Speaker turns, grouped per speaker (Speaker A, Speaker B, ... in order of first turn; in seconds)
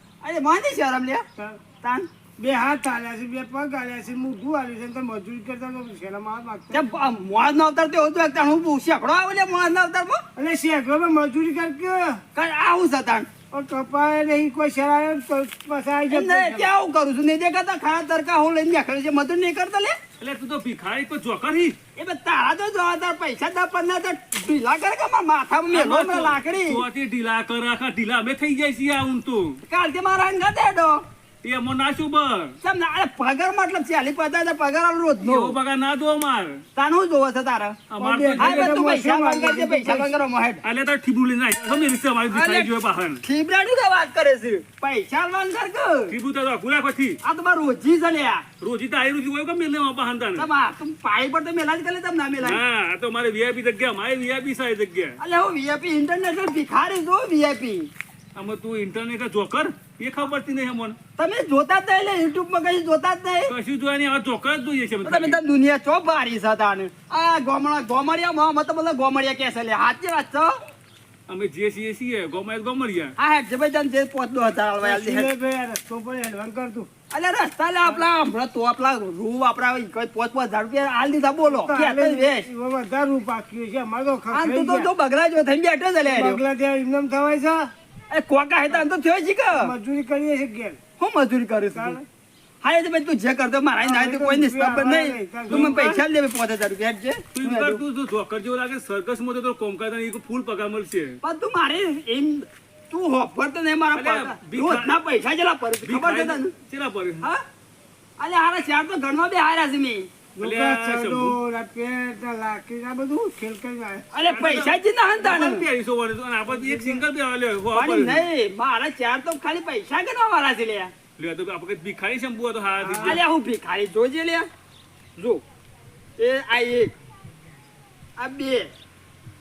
Speaker A: 0.2-1.2, 1.8-2.1, 6.7-10.2, 12.3-13.3, 16.1-19.9, 22.0-26.8, 29.7-31.0, 32.6-35.6, 36.8-37.8, 38.4-40.6, 42.3-46.1, 47.2-48.5, 50.4-52.6, 55.2-57.9, 61.2-63.5, 65.0-70.5, 73.2-75.3, 77.1-82.5, 84.3-86.4, 88.1-89.7, 91.0-92.0, 92.6-97.8, 101.2-106.5, 108.2-110.1, 114.1-115.7, 117.7-120.9, 123.0-124.5, 125.2-125.4, 126.2-126.9, 128.2-128.7
Speaker B: 1.4-1.6, 2.4-6.9, 10.4-12.2, 13.5-16.7, 38.0-40.1, 74.8-76.9, 81.4-84.9, 86.0-87.7, 89.5-90.8, 93.8-96.0, 110.4-114.1, 116.5-117.0, 122.8-123.2
Speaker C: 20.2-21.8, 25.7-29.6, 31.4-32.6, 35.2-36.6, 37.9-38.7, 40.6-43.2, 46.1-47.2, 48.6-50.5, 52.4-55.2, 58.4-61.0, 63.5-65.4, 71.3-73.1, 95.5-95.8, 97.3-101.2, 103.9-105.0, 105.8-107.3, 110.4-111.4, 114.2-118.2, 121.2-123.2